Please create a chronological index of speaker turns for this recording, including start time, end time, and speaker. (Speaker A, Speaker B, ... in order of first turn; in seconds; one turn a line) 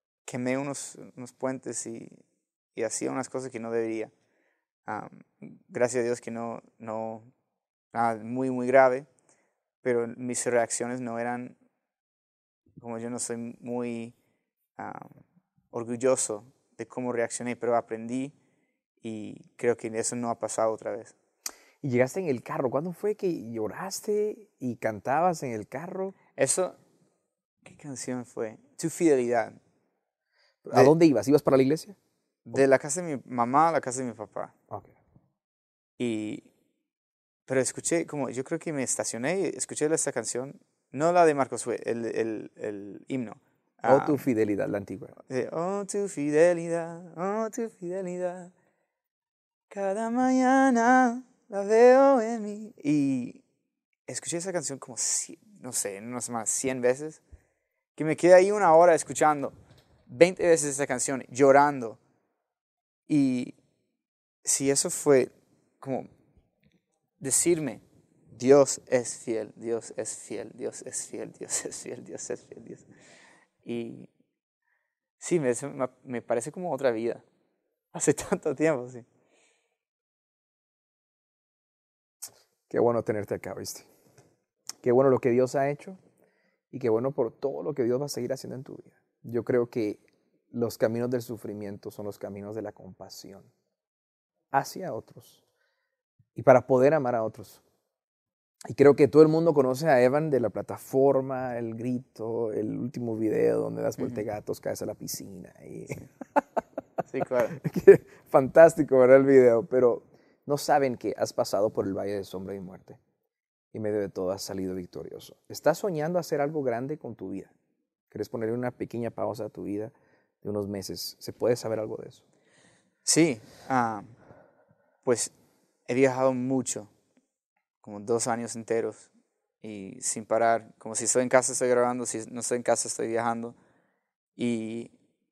Speaker A: 0.2-2.2
Speaker A: 2.7-4.1
Speaker A: 4.8-7.3
Speaker A: 7.9-9.1
Speaker A: 9.8-11.5
Speaker A: 12.8-14.1
Speaker A: 14.8-18.3
Speaker A: 19.0-21.1
Speaker B: 21.8-26.1
Speaker A: 26.4-26.8
Speaker A: 27.6-29.6
Speaker B: 30.6-31.9
Speaker A: 32.5-34.5
Speaker A: 36.0-36.5
Speaker A: 37.5-44.2
Speaker B: 43.9-45.1
Speaker A: 45.3-48.5
Speaker A: 49.7-53.4
Speaker A: 54.1-57.2
Speaker A: 57.9-59.5
Speaker A: 60.1-62.0
Speaker A: 63.1-63.5
Speaker A: 64.4-66.1
Speaker A: 67.2-67.8
Speaker A: 68.3-72.8
Speaker A: 73.6-74.1
Speaker A: 75.2-77.2
Speaker A: 77.9-79.0
Speaker B: 82.7-83.9
Speaker B: 84.8-86.0
Speaker B: 86.7-93.5
Speaker B: 94.5-95.4
Speaker B: 96.3-97.6
Speaker B: 98.7-106.1
Speaker A: 107.1-107.6
Speaker B: 107.5-113.0
Speaker B: 113.7-117.5
Speaker B: 118.1-122.2
Speaker A: 123.0-124.1
Speaker A: 125.0-125.3
Speaker A: 125.9-126.9
Speaker A: 127.8-129.1
Speaker A: 129.6-133.5
Speaker A: 134.4-134.9